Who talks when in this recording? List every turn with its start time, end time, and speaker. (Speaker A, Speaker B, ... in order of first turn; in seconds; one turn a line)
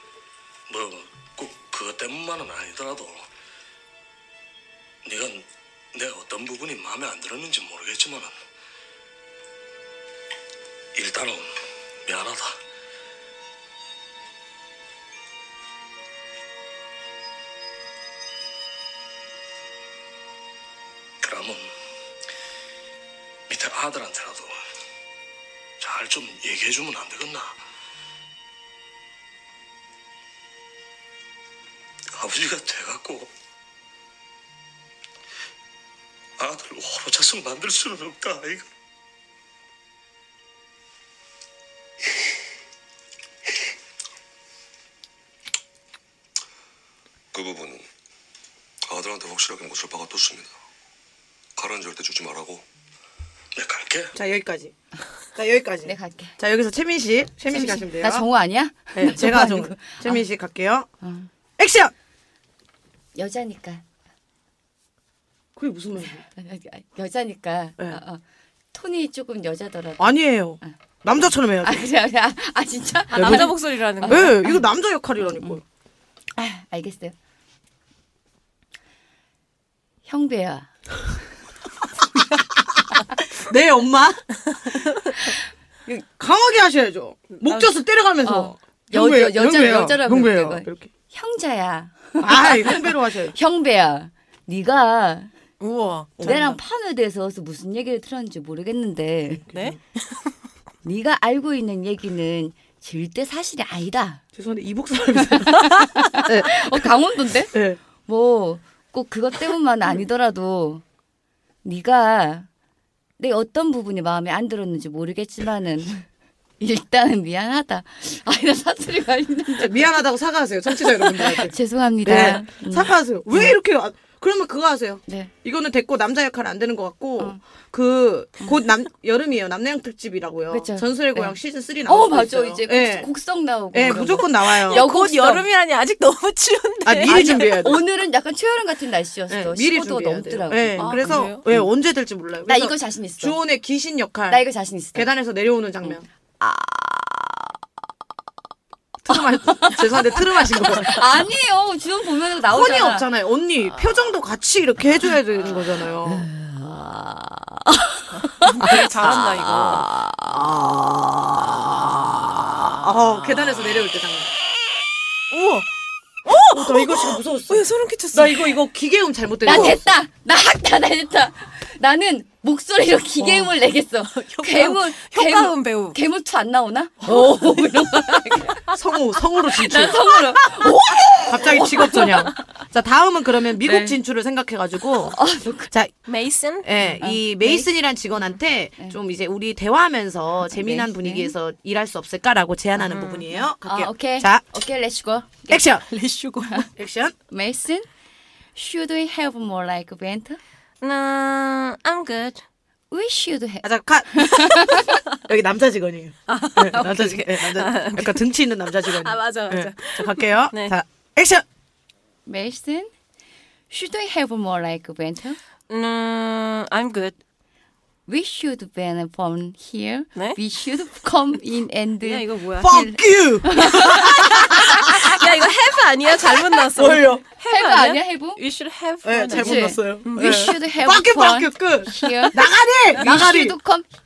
Speaker A: 0.7-3.3
Speaker A: 5.0-8.4
Speaker A: 10.9-12.6
Speaker A: 21.2-21.7
Speaker A: 23.5-24.6
Speaker A: 25.8-27.6
Speaker A: 32.1-33.3
Speaker A: 36.4-38.7
Speaker B: 47.3-47.9
Speaker B: 48.9-50.5
Speaker B: 51.6-52.6
Speaker A: 53.5-54.2
Speaker C: 54.1-54.7
Speaker C: 55.4-58.3
Speaker D: 55.9-56.4
Speaker D: 57.5-60.2
Speaker C: 58.9-60.9
Speaker D: 61.0-61.3
Speaker C: 61.6-61.9
Speaker D: 63.2-63.8
Speaker C: 65.6-66.2
Speaker D: 66.3-68.2
Speaker D: 68.7-70.8
Speaker C: 70.0-71.8
Speaker D: 71.6-74.6
Speaker E: 73.1-74.3
Speaker C: 73.1-75.6
Speaker D: 75.2-75.6
Speaker D: 76.4-77.1
Speaker D: 80.1-80.7
Speaker C: 82.4-84.8
Speaker C: 86.2-90.9
Speaker E: 87.4-87.7
Speaker D: 88.2-95.3
Speaker C: 92.2-93.3
Speaker E: 95.6-96.4
Speaker C: 96.2-96.6
Speaker D: 96.2-99.5
Speaker C: 99.5-99.8
Speaker E: 99.5-100.3
Speaker D: 100.8-104.2
Speaker C: 104.3-106.9
Speaker D: 105.4-110.8
Speaker C: 107.5-107.8
Speaker D: 111.6-112.5
Speaker D: 113.2-116.1
Speaker D: 116.6-120.0
Speaker C: 119.6-133.1
Speaker D: 120.8-123.5
Speaker D: 130.5-135.4
Speaker C: 133.7-134.9
Speaker E: 134.5-137.8
Speaker C: 136.9-137.8
Speaker D: 137.1-141.7
Speaker C: 139.3-144.4
Speaker E: 140.8-141.4
Speaker D: 142.5-143.4
Speaker D: 144.3-145.1
Speaker C: 144.9-146.1
Speaker D: 145.8-147.6
Speaker C: 149.0-151.0
Speaker D: 149.1-153.1
Speaker C: 152.5-156.3
Speaker D: 156.0-160.4
Speaker E: 158.2-159.9
Speaker C: 158.7-159.8
Speaker C: 160.3-164.3
Speaker E: 162.8-163.8
Speaker E: 165.3-165.7
Speaker E: 166.2-168.6
Speaker C: 166.4-169.8
Speaker D: 169.4-178.7
Speaker E: 169.5-169.8
Speaker C: 173.2-173.5
Speaker E: 174.1-176.0
Speaker C: 177.0-177.7
Speaker C: 178.7-180.7
Speaker D: 179.6-182.3
Speaker C: 181.2-185.9
Speaker E: 181.8-182.1
Speaker D: 183.6-184.0
Speaker D: 185.1-185.7
Speaker E: 186.1-186.9
Speaker C: 186.6-194.4
Speaker D: 187.0-187.7
Speaker D: 190.4-191.3
Speaker E: 192.8-193.3
Speaker D: 193.7-195.6
Speaker C: 195.5-195.9
Speaker E: 195.9-196.7
Speaker C: 196.8-197.2
Speaker D: 197.3-197.9
Speaker D: 198.6-200.4
Speaker E: 200.8-202.4
Speaker D: 202.9-205.0
Speaker C: 203.6-204.7
Speaker C: 205.2-211.4
Speaker E: 206.3-208.3
Speaker E: 208.8-210.7
Speaker D: 212.3-212.9
Speaker D: 213.7-215.4
Speaker E: 215.7-217.2
Speaker D: 218.1-222.8
Speaker E: 222.0-222.9
Speaker C: 222.6-225.2
Speaker D: 223.4-224.6
Speaker E: 224.5-230.6
Speaker C: 226.7-227.2
Speaker D: 227.5-228.4
Speaker C: 229.0-233.6
Speaker D: 229.3-232.4
Speaker D: 232.9-233.9